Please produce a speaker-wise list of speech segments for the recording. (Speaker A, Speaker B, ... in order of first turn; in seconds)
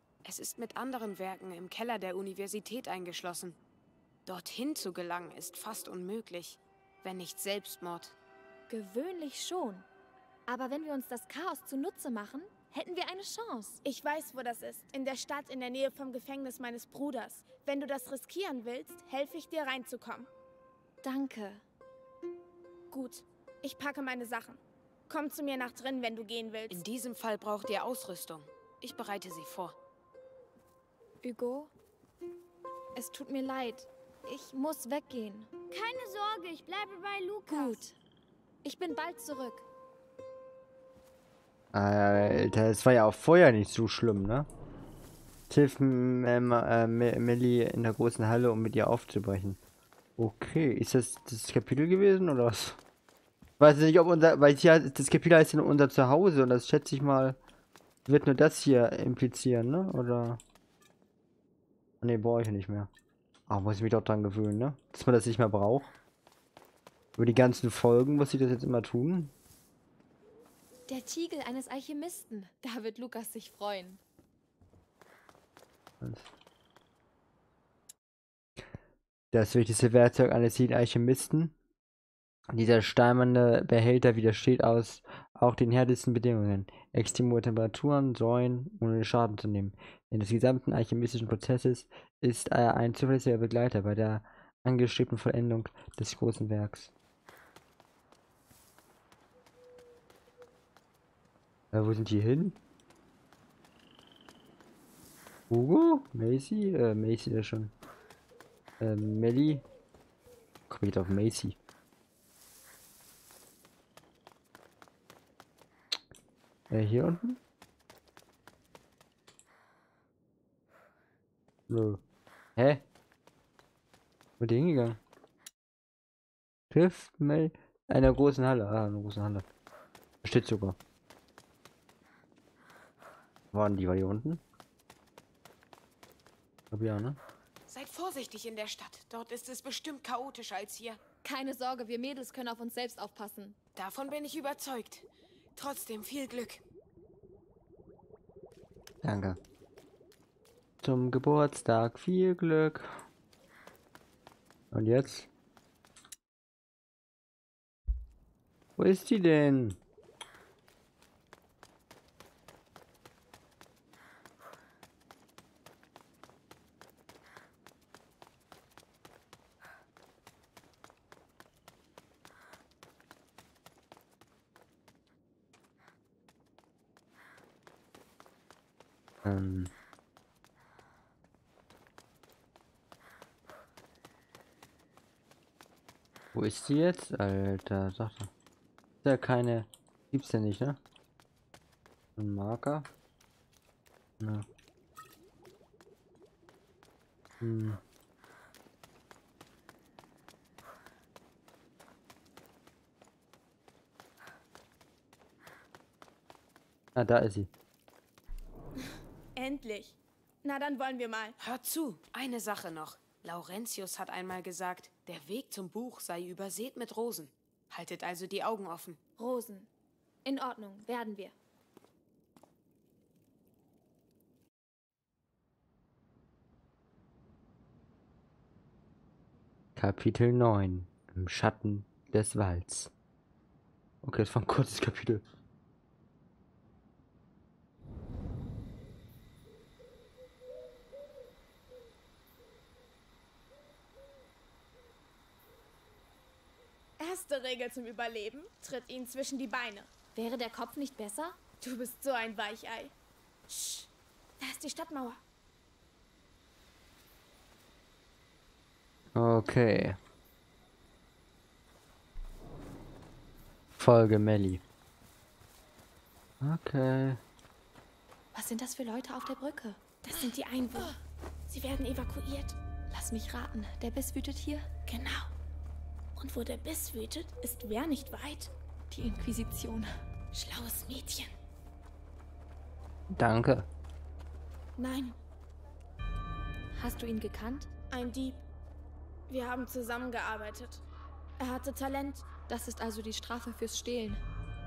Speaker A: 0.2-3.6, 4.3-8.2, 26.7-29.8, 137.7-141.0, 143.8-146.6, 211.4-219.0
Speaker B: 8.7-9.9, 10.5-13.8, 21.0-21.6, 31.2-31.7, 33.0-35.5, 37.5-38.0, 38.6-39.6, 70.9-74.0, 141.2-143.6, 219.2-219.7, 220.2-221.3, 250.2-251.4, 268.4-270.9, 272.9-274.7, 278.9-279.9, 286.8-287.7, 292.5-294.2
Speaker C: 13.8-20.3, 22.9-26.8, 208.8-211.4, 247.0-249.9, 251.6-252.9, 253.5-255.2, 270.0-271.0, 271.5-272.6, 274.9-275.3, 276.2-278.5, 280.3-281.3, 284.8-285.2, 287.9-288.4, 289.3-290.8, 291.4-292.3
Speaker D: 35.7-37.8
Speaker E: 41.7-44.5, 45.5-49.6, 50.2-52.8, 53.6-57.4, 58.1-60.4, 62.0-62.9, 63.5-65.9, 67.2-69.3, 76.0-76.3, 79.3-81.5, 82.5-96.9, 101.7-102.6, 105.5-107.7, 108.8-109.6, 110.7-111.6, 116.7-117.4, 121.7-122.0, 122.6-122.8, 124.4-125.0, 126.7-129.4, 130.2-130.8, 133.5-134.4, 136.7-137.2, 149.0-149.4, 150.8-152.9, 154.7-155.3, 158.8-159.8, 179.2-179.7, 186.3-188.3, 189.0-190.8, 192.2-192.9, 194.2-194.4, 197.4-197.8, 206.9-207.5, 229.8-232.9, 234.0-235.2, 259.1-260.0, 263.8-264.6, 266.4-267.2, 283.1-283.7